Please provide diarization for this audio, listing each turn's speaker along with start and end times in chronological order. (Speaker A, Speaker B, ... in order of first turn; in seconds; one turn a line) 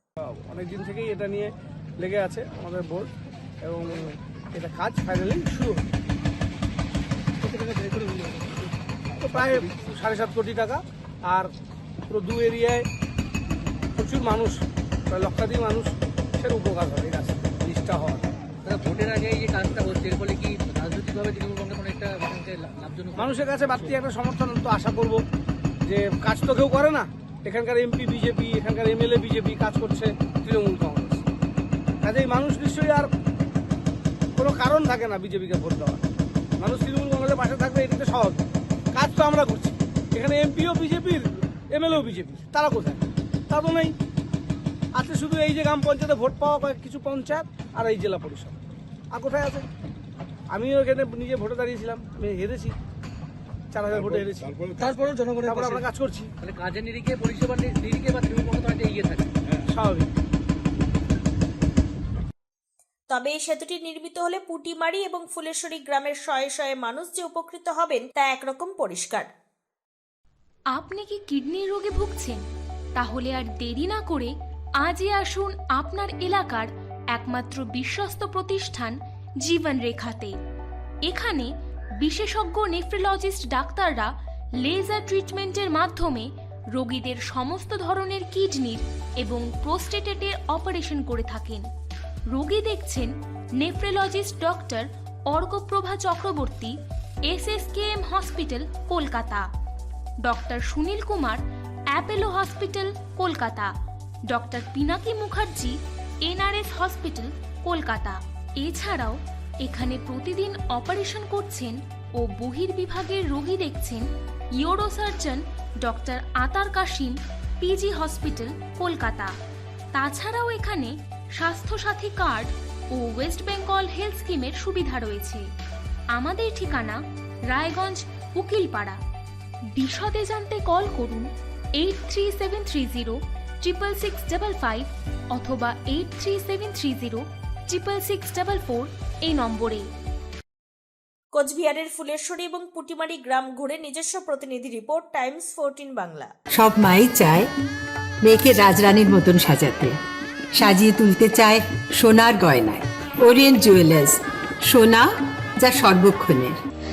Speaker A: 0.2-3.1
Speaker A: 3.6-5.8
Speaker A: 9.2-11.5
Speaker A: 12.1-12.9
Speaker A: 14.0-18.3
Speaker B: 18.7-23.3
Speaker A: 23.2-25.2
Speaker A: 25.8-31.2
Speaker A: 32.0-33.1
Speaker A: 34.4-36.0
Speaker A: 36.6-43.9
Speaker A: 44.9-48.5
Speaker A: 49.1-49.7
Speaker A: 50.5-52.8
Speaker A: 53.7-54.6
Speaker B: 55.0-55.4
Speaker A: 55.4-56.3
Speaker B: 56.4-59.3
Speaker A: 59.7-60.1
Speaker C: 63.1-69.3
Speaker D: 70.7-72.4
Speaker D: 73.0-80.3
Speaker D: 81.0-84.1
Speaker D: 84.6-91.7
Speaker D: 92.3-96.7
Speaker D: 97.3-99.5
Speaker D: 100.2-103.7
Speaker D: 104.3-114.0
Speaker D: 114.6-119.3
Speaker D: 119.9-125.4
Speaker D: 126.1-127.0
Speaker D: 127.5-129.0
Speaker D: 129.8-139.9
Speaker C: 141.3-146.3
Speaker E: 146.5-147.5
Speaker E: 148.2-150.0
Speaker E: 150.5-156.6